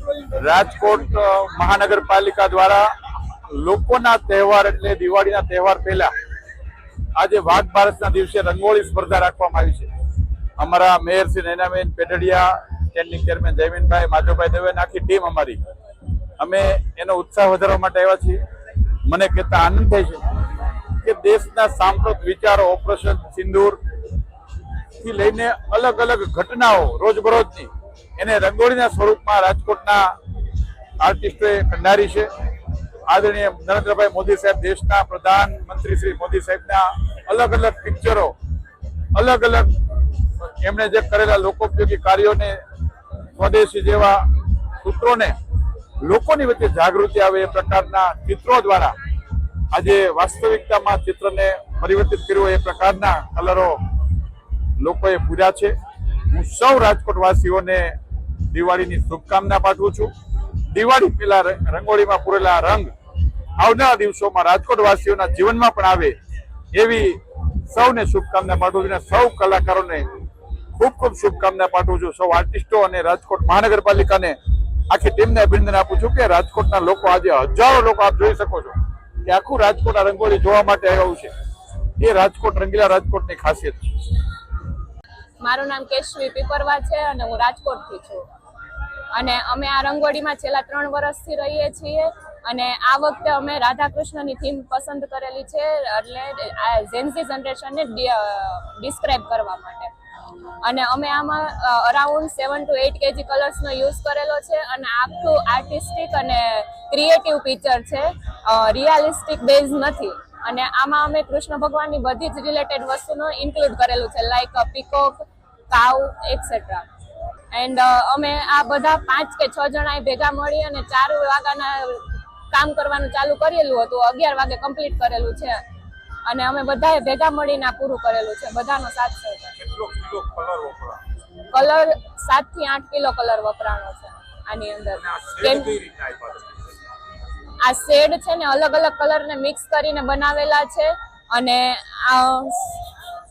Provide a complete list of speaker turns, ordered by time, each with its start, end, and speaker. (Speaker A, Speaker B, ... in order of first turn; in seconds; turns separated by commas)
Speaker A: 0.3-6.1, Speaker A: 7.2-9.9, Speaker A: 10.6-15.6, Speaker A: 16.4-18.4, Speaker A: 19.1-20.3, Speaker A: 21.0-23.8, Speaker A: 25.0-30.1, Speaker A: 31.0-32.3, Speaker A: 33.1-38.3, Speaker A: 39.1-39.7, Speaker A: 40.4-42.6, Speaker A: 43.4-44.3, Speaker A: 44.8-45.4, Speaker A: 46.0-49.0, Speaker A: 49.7-53.8, Speaker A: 54.8-55.8, Speaker A: 56.3-58.0, Speaker A: 58.5-60.1, Speaker A: 60.7-62.9, Speaker A: 63.6-66.2, Speaker A: 66.7-70.1, Speaker A: 70.8-74.4, Speaker A: 74.9-81.3, Speaker A: 82.0-84.1, Speaker B: 85.4-88.3, Speaker B: 89.1-99.9, Speaker B: 100.6-116.9, Speaker B: 117.5-125.6, Speaker B: 126.3-129.6, Speaker A: 129.6-131.0, Speaker B: 131.5-135.8, Speaker A: 135.2-136.5, Speaker B: 137.6-142.8